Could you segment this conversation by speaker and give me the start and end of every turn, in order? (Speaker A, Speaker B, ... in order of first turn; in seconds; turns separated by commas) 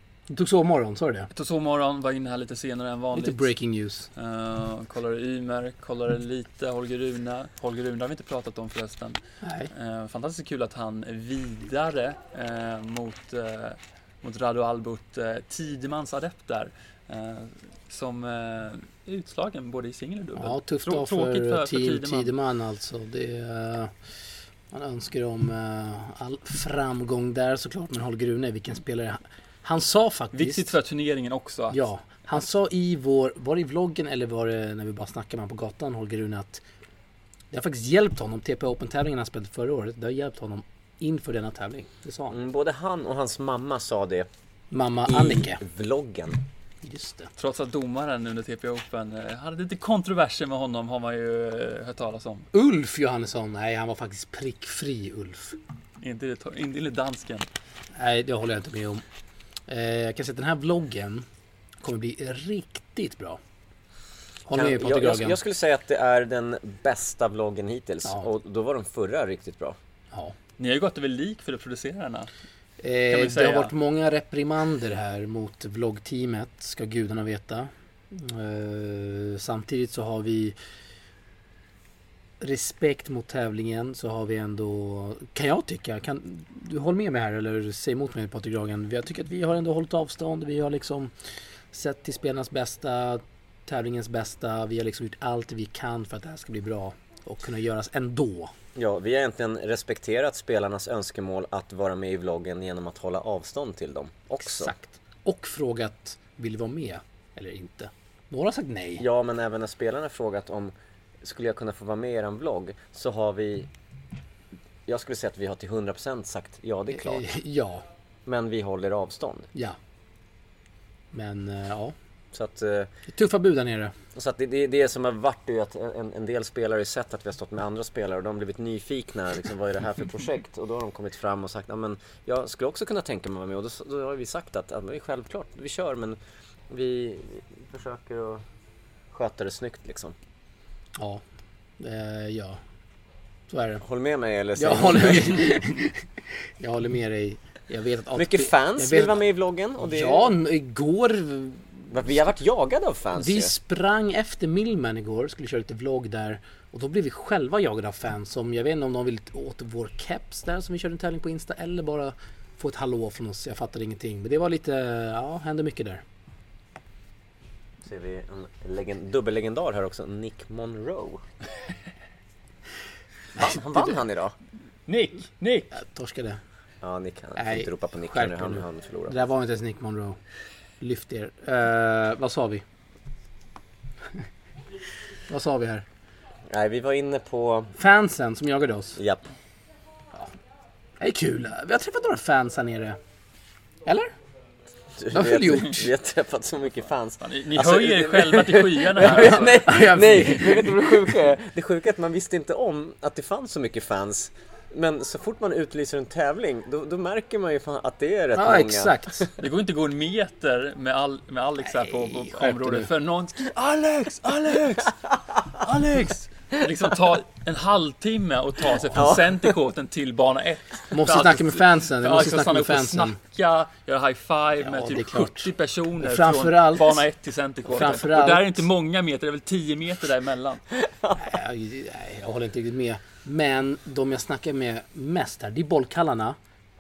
Speaker A: 0.3-1.3, Speaker B: 1.3-3.5, Speaker A: 3.1-4.1, Speaker B: 4.2-9.2, Speaker A: 9.4-9.7, Speaker B: 9.7-22.3, Speaker A: 20.4-23.9, Speaker A: 24.7-30.8, Speaker B: 30.3-31.8, Speaker A: 31.7-36.6, Speaker A: 37.5-42.4, Speaker C: 42.3-44.3, Speaker A: 44.7-45.6, Speaker C: 45.1-46.4, Speaker A: 46.8-47.3, Speaker B: 47.4-52.5, Speaker A: 52.5-55.6, Speaker B: 56.0-57.5, Speaker A: 58.0-59.0, Speaker A: 59.7-61.3, Speaker A: 61.8-63.4, Speaker A: 64.5-65.4, Speaker C: 64.5-69.8, Speaker B: 70.6-72.3, Speaker A: 72.8-80.6, Speaker B: 73.1-73.7, Speaker A: 82.4-91.1, Speaker A: 91.7-98.5, Speaker C: 98.8-104.7, Speaker A: 104.4-109.0, Speaker C: 109.0-113.7, Speaker C: 114.9-117.3, Speaker A: 116.9-117.8, Speaker C: 118.3-119.5, Speaker A: 121.1-121.9, Speaker C: 122.3-122.9, Speaker A: 123.1-123.9, Speaker C: 124.1-136.2, Speaker C: 136.7-138.4, Speaker C: 139.1-140.2, Speaker A: 141.0-141.2, Speaker A: 141.8-142.6, Speaker A: 143.5-143.8, Speaker C: 143.8-145.5, Speaker A: 144.6-149.2, Speaker C: 148.2-150.3, Speaker A: 149.8-151.9, Speaker C: 151.9-153.5, Speaker A: 153.2-166.0, Speaker C: 167.8-171.2, Speaker C: 173.4-174.3, Speaker B: 174.9-175.7, Speaker A: 175.7-176.4, Speaker C: 176.8-179.2, Speaker A: 177.4-180.2, Speaker A: 180.8-182.6, Speaker A: 185.3-185.9, Speaker C: 186.5-187.7, Speaker A: 187.8-189.0, Speaker C: 189.0-189.3, Speaker A: 191.0-193.0, Speaker A: 193.9-194.1, Speaker C: 195.0-209.3, Speaker A: 195.1-195.9, Speaker B: 197.2-199.7, Speaker A: 199.1-200.9, Speaker A: 208.3-209.3, Speaker B: 209.4-230.6, Speaker A: 211.7-212.9, Speaker C: 218.9-219.6, Speaker A: 220.9-223.2, Speaker A: 224.6-227.0, Speaker A: 227.7-228.7, Speaker C: 230.8-231.2, Speaker A: 231.2-236.4